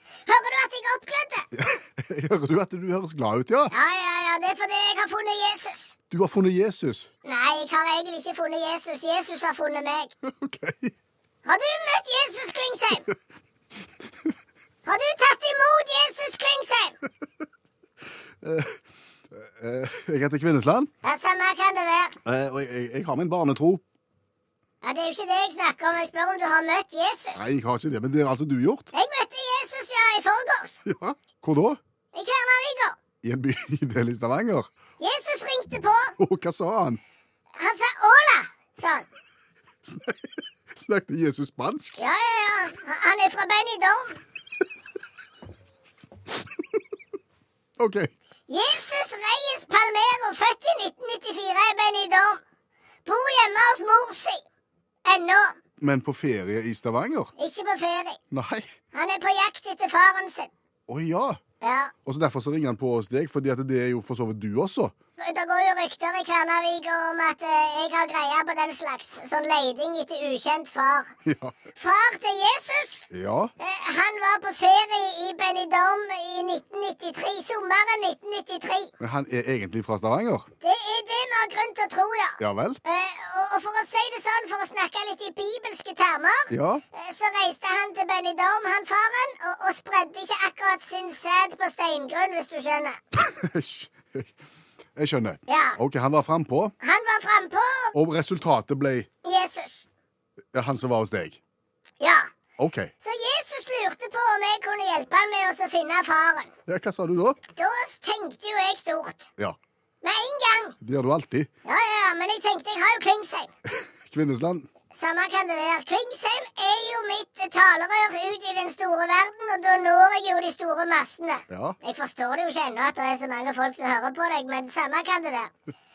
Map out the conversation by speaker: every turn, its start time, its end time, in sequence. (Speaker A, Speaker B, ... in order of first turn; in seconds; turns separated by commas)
Speaker A: 0.2-1.5, Speaker B: 1.5-3.7, Speaker A: 3.7-6.0, Speaker B: 6.1-7.1, Speaker A: 7.2-10.1, Speaker B: 10.2-10.9, Speaker A: 11.4-13.1, Speaker A: 14.8-17.0, Speaker B: 18.4-18.8, Speaker B: 19.3-20.9, Speaker A: 21.0-22.2, Speaker B: 22.2-23.8, Speaker A: 24.8-27.4, Speaker B: 27.3-28.9, Speaker A: 28.9-30.8, Speaker B: 30.8-31.8, Speaker A: 32.1-33.0, Speaker B: 33.2-34.7, Speaker A: 35.0-36.1, Speaker B: 36.2-37.0, Speaker A: 37.5-39.0, Speaker B: 39.8-42.0, Speaker A: 42.0-44.2, Speaker B: 47.8-48.1, Speaker A: 48.5-52.4, Speaker A: 53.0-54.4, Speaker A: 55.0-55.6, Speaker B: 55.8-57.3, Speaker A: 57.4-58.2, Speaker B: 58.3-58.7, Speaker A: 58.9-60.5, Speaker B: 60.9-61.4, Speaker A: 61.6-61.9, Speaker B: 62.0-64.9, Speaker A: 65.2-71.1, Speaker B: 71.2-71.5, Speaker A: 71.7-78.9, Speaker B: 73.1-73.5, Speaker B: 79.0-80.5, Speaker A: 80.6-93.0, Speaker B: 82.4-82.8, Speaker B: 86.5-86.8, Speaker B: 93.2-94.3, Speaker B: 95.0-96.7, Speaker A: 95.5-95.8, Speaker A: 96.8-98.0, Speaker B: 97.9-99.1, Speaker A: 99.2-99.8, Speaker B: 100.5-101.4, Speaker A: 102.0-102.3, Speaker B: 102.6-102.9, Speaker A: 103.0-106.5, Speaker B: 106.7-107.4, Speaker A: 107.5-109.3, Speaker A: 110.0-110.8, Speaker B: 110.8-111.5, Speaker A: 111.6-113.5, Speaker B: 114.0-114.7, Speaker A: 114.9-125.5, Speaker B: 121.5-121.8